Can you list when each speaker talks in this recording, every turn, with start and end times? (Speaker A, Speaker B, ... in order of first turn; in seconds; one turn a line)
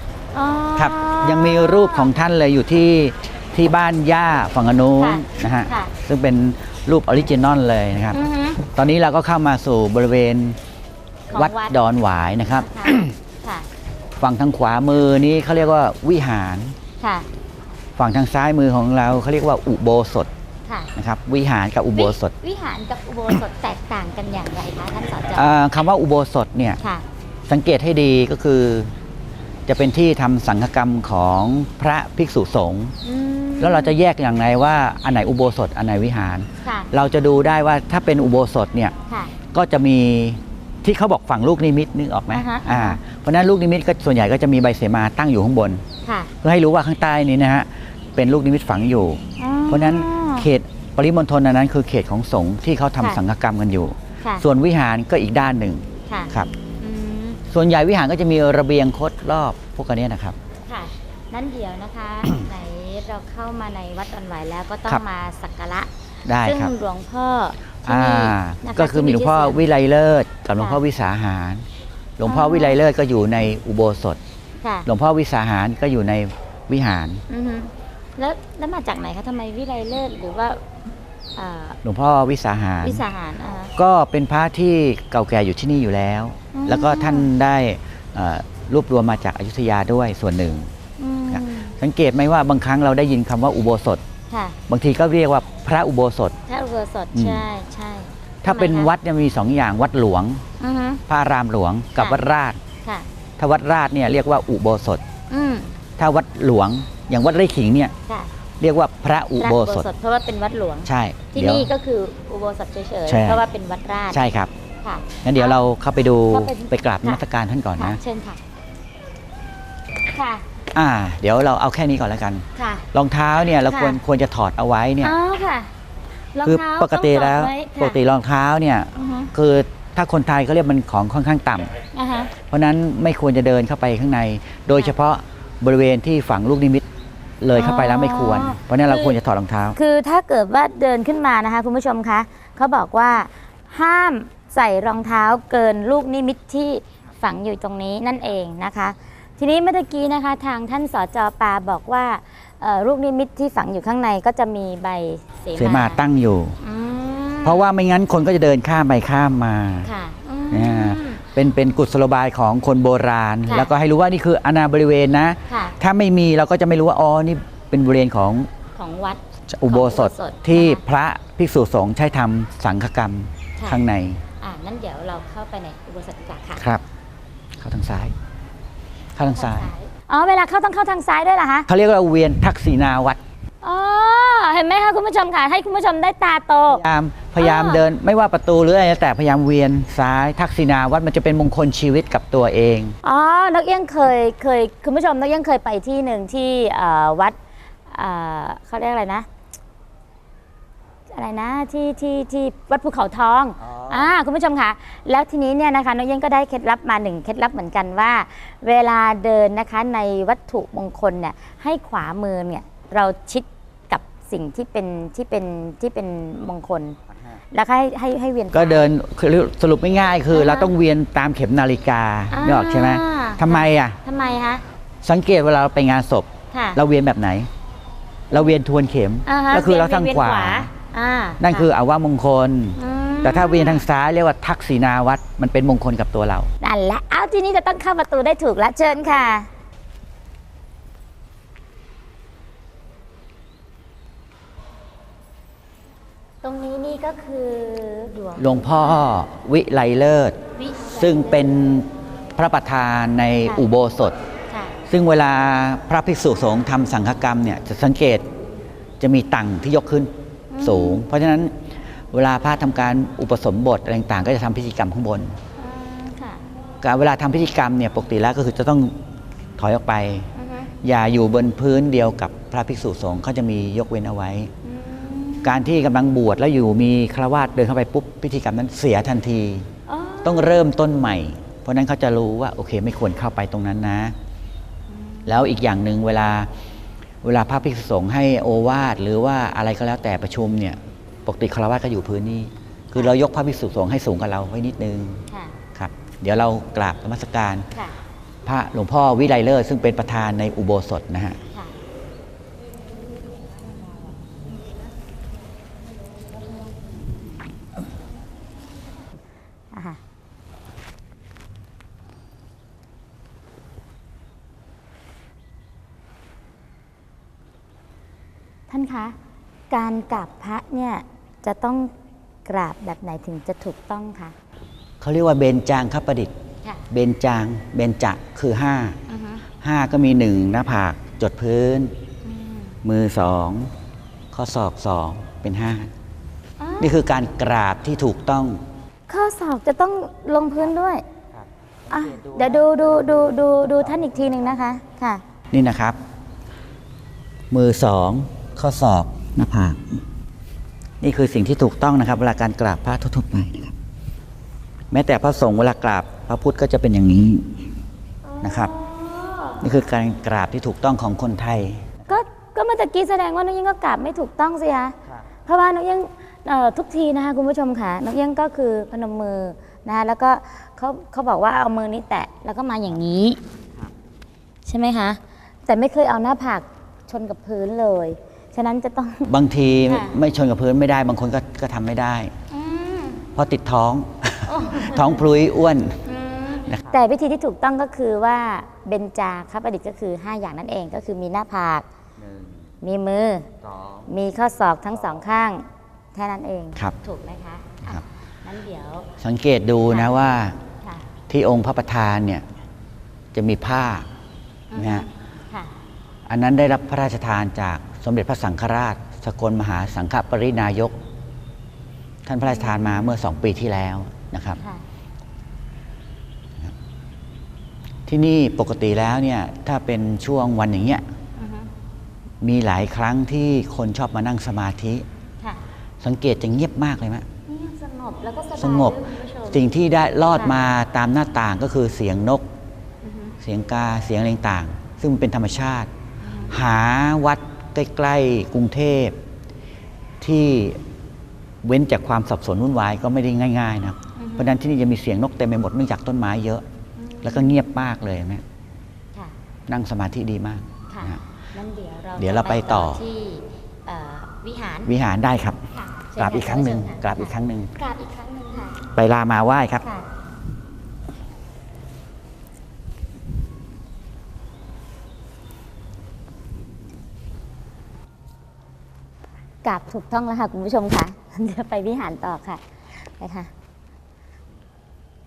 Speaker A: 0.3-2.1
Speaker B: 0.8-10.6
Speaker A: 5.0-5.9
Speaker A: 8.1-8.6
Speaker A: 11.3-11.8
Speaker B: 11.3-13.2
Speaker A: 12.5-13.7
Speaker B: 14.2-16.8
Speaker A: 17.0-17.3
Speaker B: 18.0-20.3
Speaker A: 20.6-20.9
Speaker B: 20.9-22.3
Speaker A: 21.9-25.5
Speaker B: 25.3-26.8
Speaker B: 27.5-28.9
Speaker B: 29.7-32.9
Speaker A: 33.0-34.0
Speaker B: 33.6-38.9
Speaker A: 36.6-36.9
Speaker A: 39.1-39.3
Speaker B: 39.5-45.8
Speaker A: 42.3-43.0
Speaker A: 46.0-46.3
Speaker B: 46.4-56.5
Speaker A: 49.4-50.5
Speaker A: 54.2-54.5
Speaker A: 56.1-57.4
Speaker B: 57.5-60.4
Speaker A: 60.6-65.9
Speaker B: 66.2-66.7
Speaker A: 66.4-69.6
Speaker B: 67.9-71.7
Speaker A: 70.6-70.8
Speaker B: 72.2-74.2
Speaker A: 72.2-72.8
Speaker A: 74.6-74.9
Speaker B: 74.9-77.2
Speaker A: 77.3-80.6
Speaker A: 81.4-81.8
Speaker B: 81.8-83.0
Speaker A: 82.8-83.7
Speaker B: 83.8-90.7
Speaker A: 86.5-87.3
Speaker A: 91.0-91.7
Speaker B: 91.3-94.0
Speaker A: 94.3-94.6
Speaker B: 94.7-96.4
Speaker A: 96.5-98.9
Speaker B: 97.1-97.4
Speaker B: 98.4-100.4
Speaker A: 100.6-101.0
Speaker B: 101.1-102.6
Speaker A: 102.0-102.2
Speaker B: 103.4-105.0
Speaker A: 105.3-105.7
Speaker B: 106.0-107.9
Speaker A: 108.1-108.3
Speaker B: 108.6-109.9
Speaker A: 109.4-114.2
Speaker B: 110.8-111.7
Speaker B: 113.1-113.4
Speaker B: 114.1-114.5
Speaker A: 114.8-115.7
Speaker B: 115.2-118.0
Speaker A: 116.2-117.2
Speaker A: 117.8-118.4
Speaker A: 120.1-120.4
Speaker B: 120.7-125.2
Speaker A: 122.5-122.9
Speaker A: 123.7-124.0
Speaker A: 125.0-125.7
Speaker A: 126.3-128.0
Speaker B: 126.4-131.7
Speaker A: 128.9-129.3
Speaker A: 131.9-132.3
Speaker B: 132.5-136.8
Speaker B: 137.4-139.8
Speaker A: 137.6-139.2
Speaker A: 139.8-156.0
Speaker B: 155.6-156.6
Speaker A: 156.6-157.7
Speaker B: 157.4-159.9
Speaker A: 159.8-161.4
Speaker B: 160.5-168.5
Speaker A: 163.5-163.7
Speaker A: 165.5-165.8
Speaker A: 168.8-170.8
Speaker B: 169.5-174.2
Speaker A: 173.6-173.8
Speaker A: 174.4-176.7
Speaker B: 176.6-176.8
Speaker B: 177.6-178.1
Speaker B: 179.2-179.7
Speaker A: 179.3-181.7
Speaker B: 181.7-183.2
Speaker A: 183.6-186.8
Speaker B: 186.7-193.0
Speaker A: 187.4-187.8
Speaker A: 193.0-199.3
Speaker A: 201.1-217.0
Speaker B: 203.7-204.1
Speaker A: 217.5-218.9
Speaker B: 218.5-224.0
Speaker A: 220.3-220.7
Speaker A: 222.3-224.6
Speaker B: 225.0-227.5
Speaker A: 226.5-226.8
Speaker B: 228.3-230.7
Speaker A: 229.3-231.7
Speaker B: 231.4-236.5
Speaker A: 232.8-233.9
Speaker A: 236.6-239.5
Speaker A: 246.4-249.0
Speaker B: 248.4-250.4
Speaker A: 250.6-251.4
Speaker B: 250.9-254.2
Speaker A: 254.5-254.8
Speaker B: 254.9-258.2
Speaker B: 259.0-261.5
Speaker A: 260.5-261.0
Speaker B: 262.1-265.4
Speaker A: 265.6-266.4
Speaker B: 266.8-268.9
Speaker B: 269.6-270.3
Speaker A: 270.4-270.7
Speaker B: 270.8-274.5
Speaker A: 274.6-275.6
Speaker B: 275.4-279.7
Speaker A: 279.9-280.6
Speaker B: 280.2-284.1
Speaker A: 284.9-285.5
Speaker B: 285.3-286.5
Speaker B: 287.2-295.2
Speaker A: 295.3-295.6
Speaker B: 295.8-297.7
Speaker A: 297.7-298.0
Speaker B: 298.4-301.4
Speaker A: 309.7-310.0
Speaker A: 318.7-319.2
Speaker A: 319.7-321.9
Speaker A: 322.4-324.4
Speaker B: 325.0-326.3
Speaker B: 326.9-329.0
Speaker A: 329.1-329.4
Speaker B: 329.6-331.9
Speaker A: 332.2-332.8
Speaker B: 332.8-333.7
Speaker B: 334.3-335.9
Speaker A: 336.6-337.0
Speaker B: 336.8-338.6
Speaker A: 339.1-341.0
Speaker B: 341.4-343.6
Speaker A: 341.9-345.2
Speaker B: 345.5-346.0
Speaker B: 347.5-350.0
Speaker B: 351.0-353.7
Speaker B: 354.9-357.5
Speaker A: 358.2-359.6
Speaker B: 358.4-358.7
Speaker B: 359.6-362.2
Speaker A: 362.1-364.9
Speaker A: 365.5-373.4
Speaker A: 374.6-379.3
Speaker B: 379.3-382.3
Speaker A: 379.9-380.1
Speaker A: 382.5-383.2
Speaker B: 383.4-386.0
Speaker A: 384.5-385.3
Speaker A: 386.1-391.9
Speaker B: 386.7-387.0
Speaker B: 392.2-392.6
Speaker A: 392.8-393.5
Speaker B: 393.7-394.1
Speaker A: 394.1-395.6
Speaker A: 396.1-399.1
Speaker B: 399.2-400.6
Speaker A: 399.9-400.2
Speaker A: 400.8-401.1
Speaker B: 401.3-402.4
Speaker B: 403.3-404.1
Speaker A: 404.7-405.7
Speaker B: 404.8-405.1
Speaker B: 406.3-410.9
Speaker B: 412.3-414.6
Speaker A: 412.5-413.1
Speaker B: 418.1-421.0
Speaker A: 421.4-421.7
Speaker B: 422.4-425.1
Speaker B: 426.0-427.2
Speaker A: 427.5-429.6
Speaker B: 428.6-432.4
Speaker A: 430.3-430.6
Speaker A: 433.0-433.3
Speaker B: 433.4-435.9
Speaker A: 436.2-436.6
Speaker B: 436.5-439.2
Speaker B: 440.2-440.8
Speaker B: 441.6-446.6
Speaker A: 444.2-444.5
Speaker A: 447.0-447.6
Speaker B: 447.2-448.4
Speaker B: 449.7-451.2
Speaker A: 450.9-454.9
Speaker B: 452.2-453.0
Speaker B: 454.9-455.6
Speaker A: 455.7-458.8
Speaker B: 456.2-457.7
Speaker B: 458.9-459.8
Speaker A: 459.8-460.1
Speaker A: 469.6-473.5